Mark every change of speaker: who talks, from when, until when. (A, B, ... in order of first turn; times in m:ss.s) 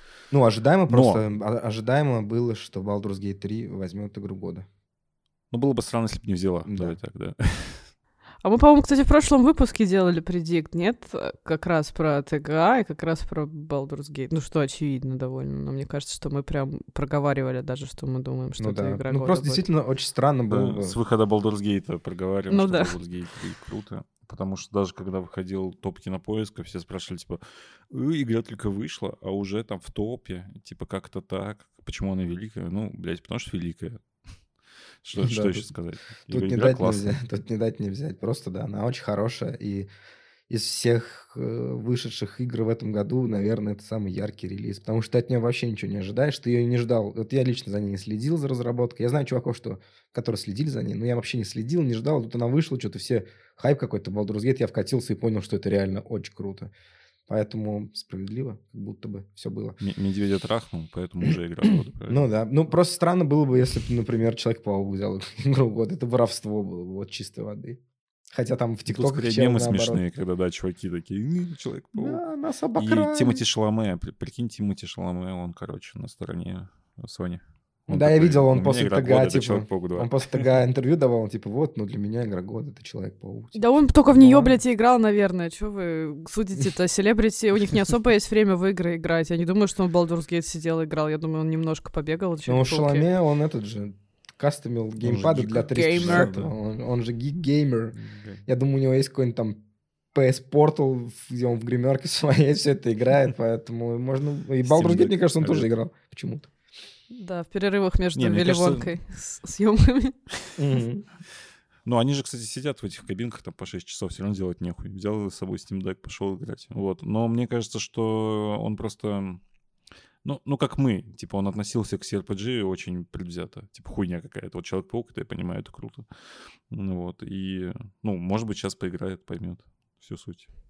0:00.3-0:04.6 A
0:00.9-0:01.2 B
0:05.5-0:07.9 B
0:06.7-0:07.0 A
0:08.4-0:19.6 C
0:18.6-0:21.0 A
0:20.5-0:34.0 B
0:22.5-0:22.9 C
0:35.0-0:37.2 B
0:35.2-0:35.7 A
0:36.3-0:39.9 A
0:40.5-0:56.7 A
0:57.3-0:59.8 A
0:59.8-1:02.2 B
1:01.7-1:07.8 A
1:08.3-1:10.0 A
1:08.9-1:12.2 B
1:11.9-1:13.4 A
1:12.7-1:20.5 B
1:17.9-1:24.6 A
1:23.5-1:33.1 C
1:32.4-1:37.9 A
1:35.0-1:36.5 B
1:35.7-1:36.3 C
1:37.9-1:38.4 B
1:38.4-1:39.6 A
1:40.1-1:46.5 A
1:44.6-1:45.7 B
1:47.1-1:50.2 C
1:48.1-1:48.9 B
1:50.6-1:51.0 A
1:51.8-1:59.4 B
2:00.2-2:10.5 B